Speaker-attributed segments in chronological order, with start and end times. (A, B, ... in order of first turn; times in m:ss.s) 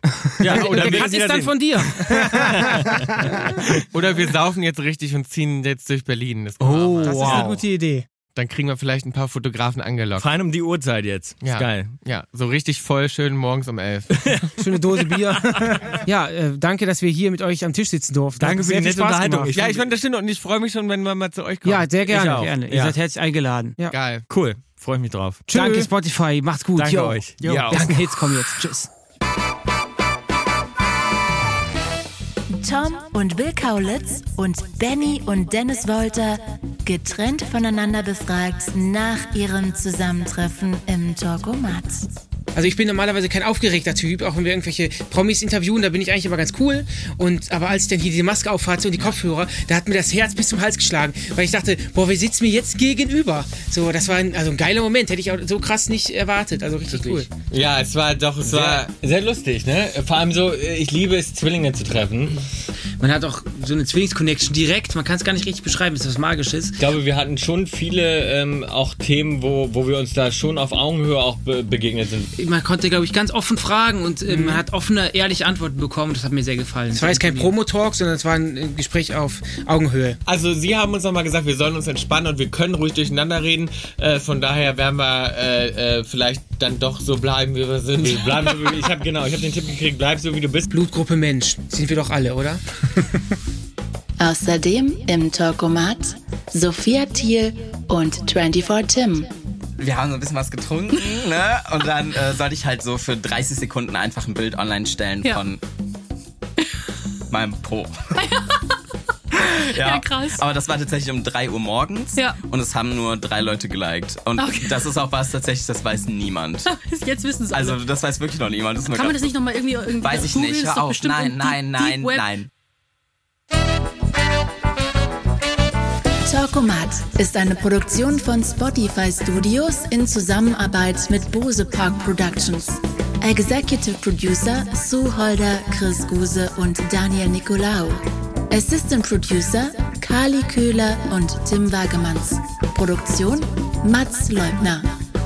0:00.3-0:03.8 A
0:00.5-0:01.1 B
0:00.5-0:03.1 C
0:03.9-0:07.5 B
0:06.8-0:07.6 A
0:06.8-0:08.0 C
0:08.3-0:10.3 B
0:10.2-0:11.9 A
0:11.4-0:14.5 B
0:14.1-0:16.0 A
0:14.6-0:19.6 C
0:18.4-0:19.8 A
0:19.5-0:21.9 B
0:21.6-0:22.5 C
0:22.1-0:23.0 A
0:22.1-0:23.8 D
0:23.9-0:24.2 B
0:24.3-0:25.4 A
0:25.5-0:25.9 C
0:25.5-0:28.9 D
0:26.8-0:27.8 A
0:27.4-0:28.0 C
0:27.5-0:27.9 B
0:32.5-0:42.0 E
0:42.5-0:57.3 C
0:56.9-0:57.2 A
0:57.5-0:58.9 B
0:58.4-1:02.4 A
1:03.0-1:06.8 D
1:06.8-1:12.3 A
1:12.4-1:17.5 D
1:14.3-1:14.6 C
1:16.9-1:20.2 C
1:20.2-1:28.8 B
1:28.0-1:30.7 A
1:30.7-1:32.6 C
1:34.2-1:39.3 E
1:39.8-1:45.6 F
1:47.3-1:48.0 F
1:48.2-1:48.5 G
1:49.4-1:56.7 F
1:49.7-1:50.4 G
1:52.1-1:52.4 G
1:54.4-1:54.8 G
1:56.6-1:57.8 G
1:57.5-1:59.4 F
1:58.9-2:02.3 G
2:00.0-2:02.5 F
2:06.2-2:24.9 E